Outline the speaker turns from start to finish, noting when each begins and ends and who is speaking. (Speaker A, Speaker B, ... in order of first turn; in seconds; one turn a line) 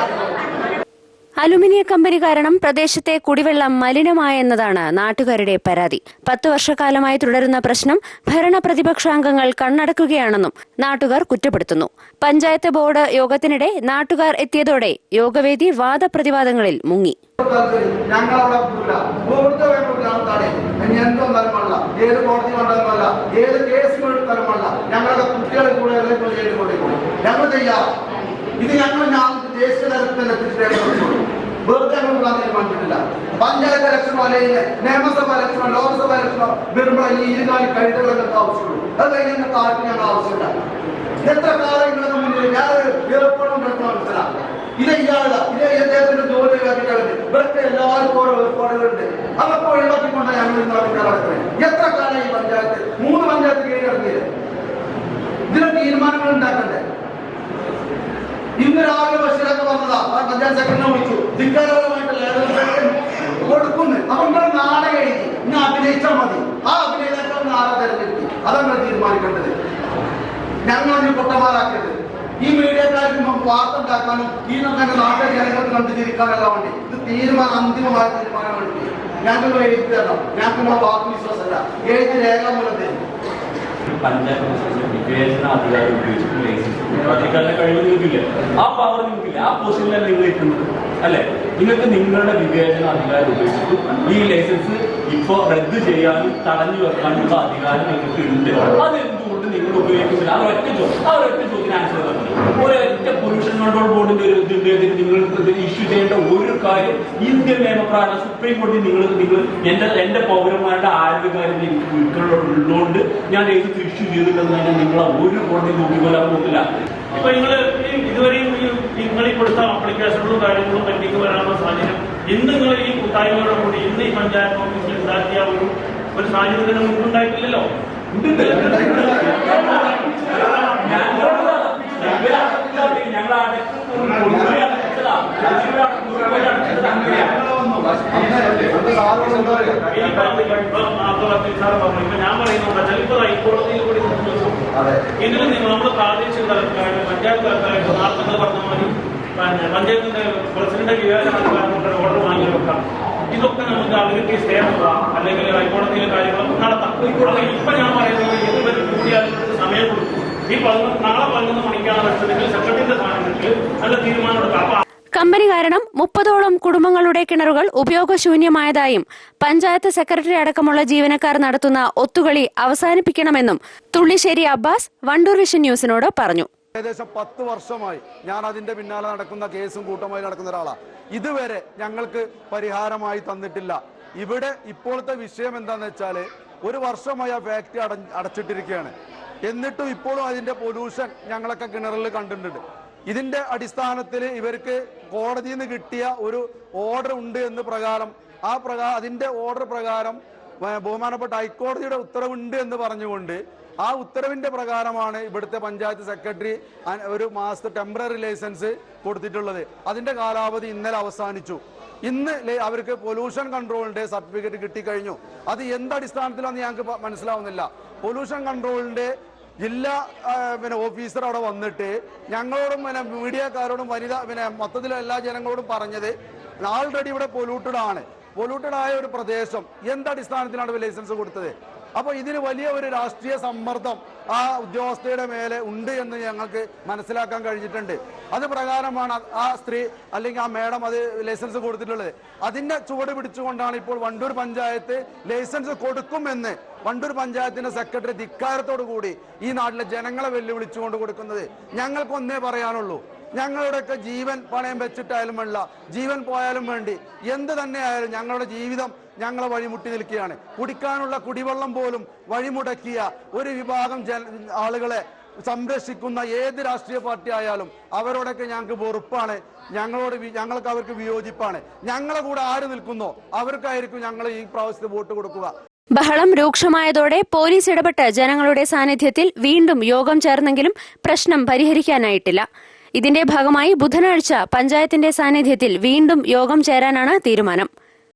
Speaker A: 1.4-17.2
Speaker B: 17.4-27.9
Speaker B: 28.6-40.5
Speaker B: 41.2-54.2
Speaker B: 55.5-56.8
Speaker B: 58.6-69.5
Speaker B: 70.6-83.0
Speaker C: 83.9-117.2
Speaker D: 117.2-127.7
Speaker C: 128.1-137.4
Speaker D: 128.6-129.4
Speaker B: 128.6-129.4
Speaker B: 137.1-140.3
Speaker D: 139.9-144.6
Speaker B: 144.7-145.0
Speaker D: 145.2-164.8
Speaker A: 165.2-176.5
Speaker B: 176.8-188.9
Speaker B: 189.4-275.5
Speaker A: 276.0-282.4
Speaker A: 283.0-287.7